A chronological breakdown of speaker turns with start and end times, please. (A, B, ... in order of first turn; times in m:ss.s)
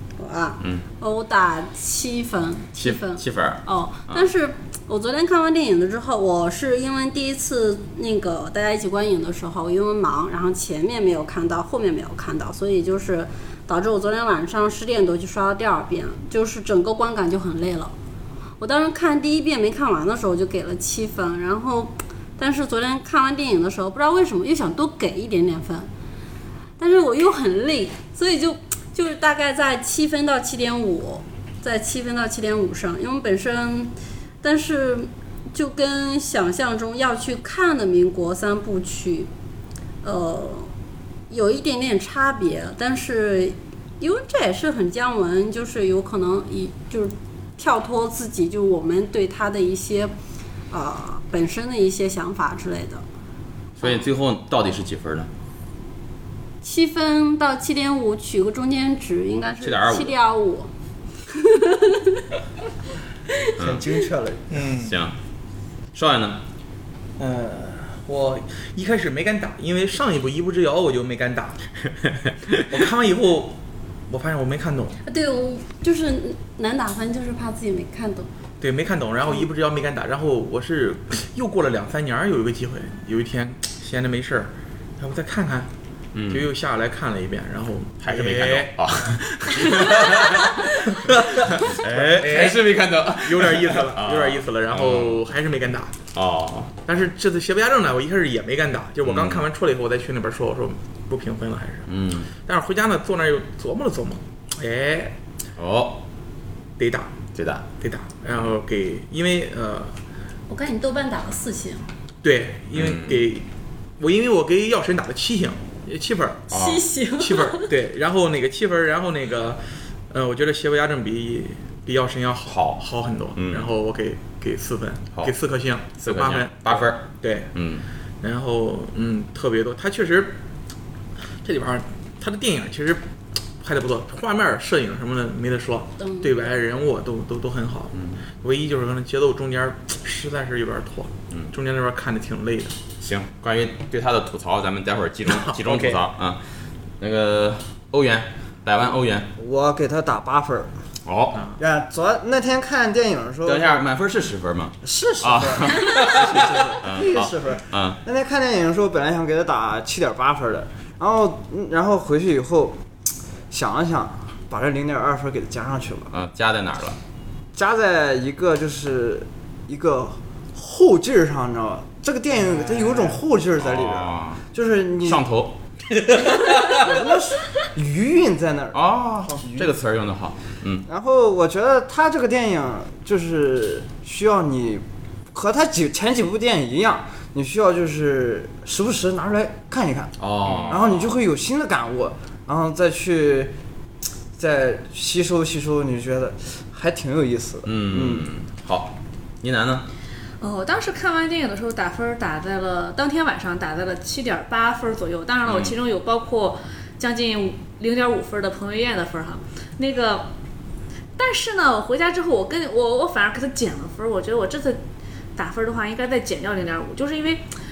0:00.2-0:17.9 A
0:02.8-0:04.3 B
0:18.6-0:25.9 A
0:26.8-0:39.3 A
0:40.0-0:40.7 A
0:41.3-0:50.1 A
0:50.7-0:53.0 A
0:53.8-0:55.3 B
0:56.6-1:00.7 A
0:59.6-1:00.1 B
1:01.3-1:02.2 A
1:03.6-1:03.8 B
1:03.6-1:04.4 C
1:04.5-1:05.0 D
1:04.7-1:05.2 B
1:05.9-1:06.4 B
1:07.2-1:11.6 D
1:12.5-1:13.6 D
1:14.1-1:15.0 D
1:15.0-1:18.3 A
1:18.6-1:25.7 D
1:26.1-1:26.5 B
1:26.3-1:28.8 D
1:28.0-1:35.2 B
1:29.5-1:35.9 D
1:36.1-1:36.7 B
1:36.8-1:45.2 D
1:39.0-1:39.4 B
1:41.8-1:42.3 B
1:45.6-1:46.0 B
1:46.8-1:47.1 D
1:47.4-1:47.6 B
1:47.7-1:49.9 D
1:50.5-1:51.9 A
1:52.2-1:53.5 D
1:52.7-1:53.2 B
1:54.0-1:56.6 D
1:56.5-1:56.8 B
1:56.5-1:57.7 A
1:57.1-2:07.5 D
2:02.5-2:02.8 B
2:03.3-2:03.7 B
2:06.0-2:07.8 B
2:08.2-2:10.3 D
2:11.4-2:13.0 D
2:13.6-2:22.8 D
2:16.0-2:16.4 A
2:17.9-2:18.2 B
2:23.0-2:26.4 B
2:25.3-2:26.0 D
2:27.0-2:29.3 B
2:29.4-2:30.7 C
2:31.0-2:31.4 B
2:31.6-2:33.8 C
2:33.4-2:38.0 B
2:34.8-2:42.8 C
2:43.5-2:46.1 C
2:46.1-2:47.0 B
2:47.5-2:55.2 C
2:53.6-2:54.4 B
2:55.0-2:55.6 B
2:56.7-2:59.7 C
2:58.7-3:00.8 B
3:00.8-3:13.5 C
3:10.2-3:11.1 B
3:14.3-3:18.2 C
3:17.6-3:19.8 B
3:20.4-3:30.3 E
3:25.4-3:25.8 B
3:31.2-3:34.8 E
3:35.4-3:37.5 E